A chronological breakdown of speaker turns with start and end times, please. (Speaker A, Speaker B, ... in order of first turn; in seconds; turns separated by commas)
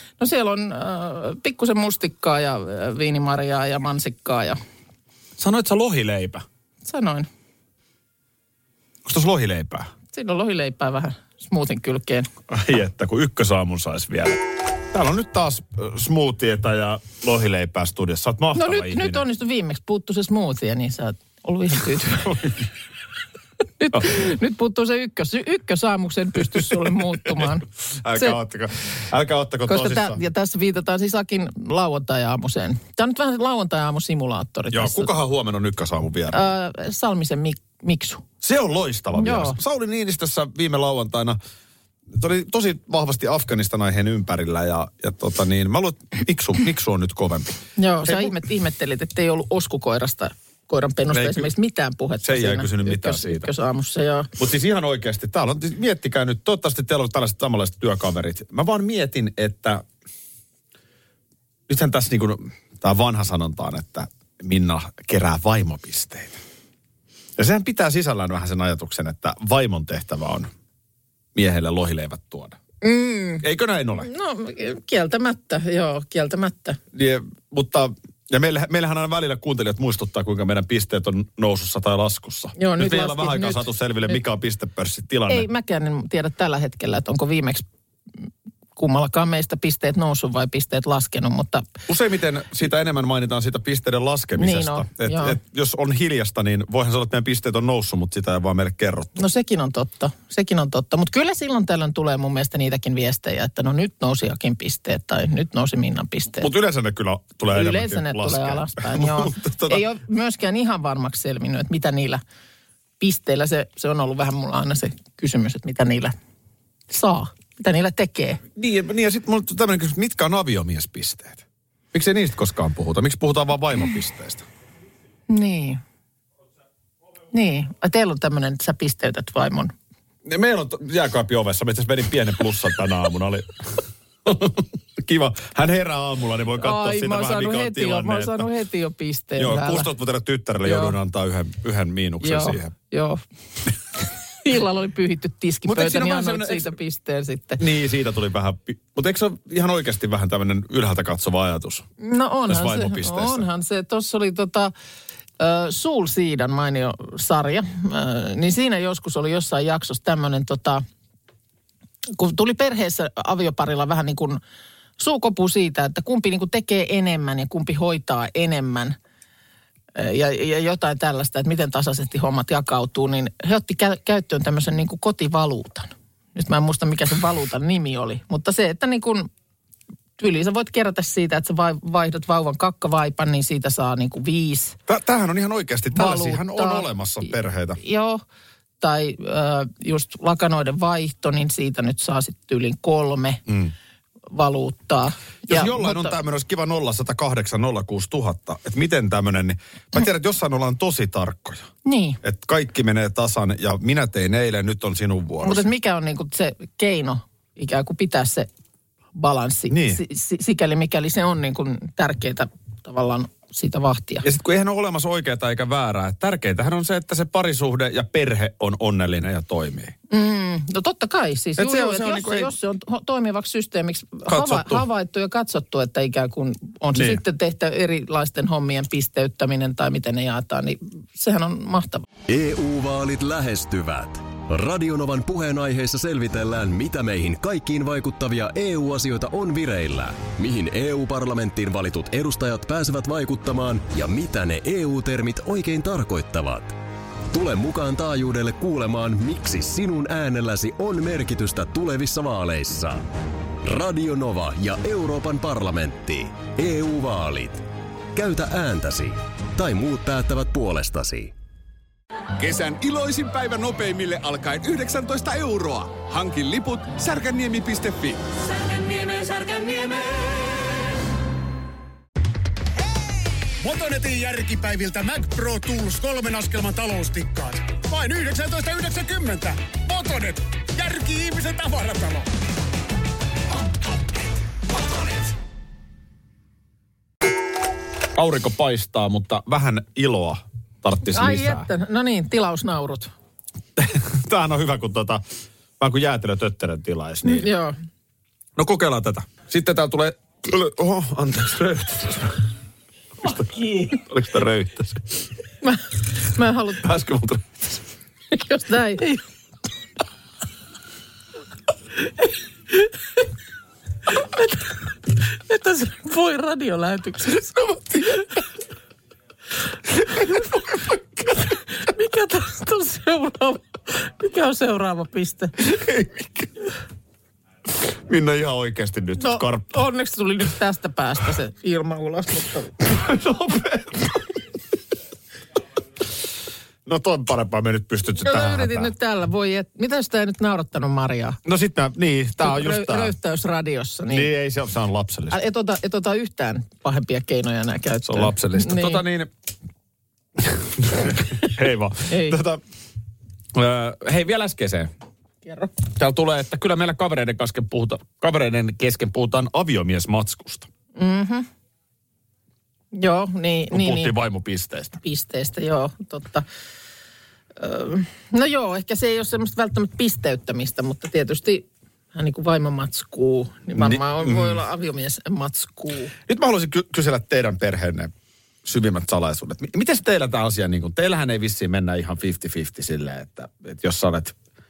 Speaker A: 0.2-4.6, Speaker B: 5.4-6.4, Speaker A: 6.8-7.3, Speaker B: 9.0-9.9, Speaker A: 10.1-12.3, Speaker B: 12.5-14.4, Speaker B: 14.9-19.2, Speaker A: 18.5-22.5, Speaker A: 23.8-28.4, Speaker B: 28.0-30.2, Speaker A: 29.7-35.1, Speaker B: 34.7-36.4, Speaker A: 36.3-38.2, Speaker B: 38.4-41.4, Speaker A: 39.1-39.6, Speaker B: 42.1-48.4, Speaker A: 47.8-54.3, Speaker B: 51.1-51.5, Speaker B: 52.2-53.5, Speaker B: 54.4-59.8, Speaker B: 61.7-66.4, Speaker B: 67.4-70.5, Speaker B: 71.3-72.6, Speaker A: 72.8-73.4, Speaker B: 73.4-74.1, Speaker A: 74.0-76.8, Speaker B: 76.9-85.5, Speaker A: 82.6-84.2, Speaker A: 85.3-87.6, Speaker A: 88.8-91.8, Speaker B: 91.9-99.2, Speaker A: 94.4-95.4, Speaker A: 99.2-106.5, Speaker B: 106.4-109.8, Speaker A: 107.5-112.2, Speaker A: 113.0-116.1, Speaker A: 116.9-118.4, Speaker B: 118.5-124.4, Speaker A: 125.3-125.8, Speaker A: 127.3-129.7, Speaker B: 130.2-138.5, Speaker A: 136.6-139.9, Speaker B: 139.4-142.7, Speaker A: 140.6-140.9, Speaker A: 142.2-143.2, Speaker A: 144.4-147.6, Speaker B: 145.7-146.8, Speaker B: 147.6-151.8, Speaker A: 152.0-154.7, Speaker B: 152.5-153.4, Speaker A: 155.4-160.8, Speaker A: 162.1-164.4, Speaker A: 165.0-168.9, Speaker A: 169.9-179.3, Speaker A: 180.2-184.8, Speaker B: 184.9-187.8, Speaker A: 185.9-186.9, Speaker A: 187.8-188.2, Speaker A: 188.8-193.4, Speaker B: 193.5-193.7, Speaker A: 194.3-196.1, Speaker B: 195.5-201.7, Speaker A: 201.8-202.2, Speaker B: 202.2-205.6, Speaker A: 205.4-208.5, Speaker A: 209.2-214.2, Speaker B: 209.7-210.0, Speaker B: 214.2-219.9, Speaker A: 220.1-232.0, Speaker B: 221.6-222.5, Speaker B: 224.3-224.8, Speaker B: 226.9-227.2, Speaker C: 232.3-246.8, Speaker C: 247.3-253.1, Speaker C: 253.6-257.6, Speaker C: 258.1-261.3, Speaker D: 262.4-270.7, Speaker E: 273.6-282.3, Speaker B: 288.1-291.7, Speaker A: 291.1-293.1, Speaker B: 293.8-295.2, Speaker B: 295.8-297.5, Speaker A: 297.2-297.8, Speaker B: 298.6-302.4, Speaker B: 303.2-305.1, Speaker A: 305.6-306.8, Speaker B: 306.8-307.8, Speaker A: 308.3-309.2, Speaker A: 314.1-314.7, Speaker A: 315.3-317.8, Speaker B: 320.3-321.0, Speaker A: 321.8-325.5, Speaker B: 325.6-326.5, Speaker B: 327.8-329.8, Speaker A: 329.2-332.7, Speaker B: 332.8-334.3, Speaker B: 336.9-338.9, Speaker A: 338.2-341.4, Speaker B: 341.4-343.1, Speaker A: 342.4-344.3, Speaker B: 344.1-345.4, Speaker A: 345.3-349.0, Speaker B: 348.0-349.3, Speaker B: 350.4-352.6, Speaker A: 352.1-352.4, Speaker B: 353.5-354.9, Speaker A: 355.4-355.7, Speaker B: 355.9-360.7, Speaker A: 360.9-361.5, Speaker A: 362.9-364.1, Speaker B: 363.7-365.0, Speaker A: 365.0-366.4, Speaker A: 367.6-376.1, Speaker B: 373.7-374.6, Speaker B: 376.3-378.1, Speaker B: 378.6-384.3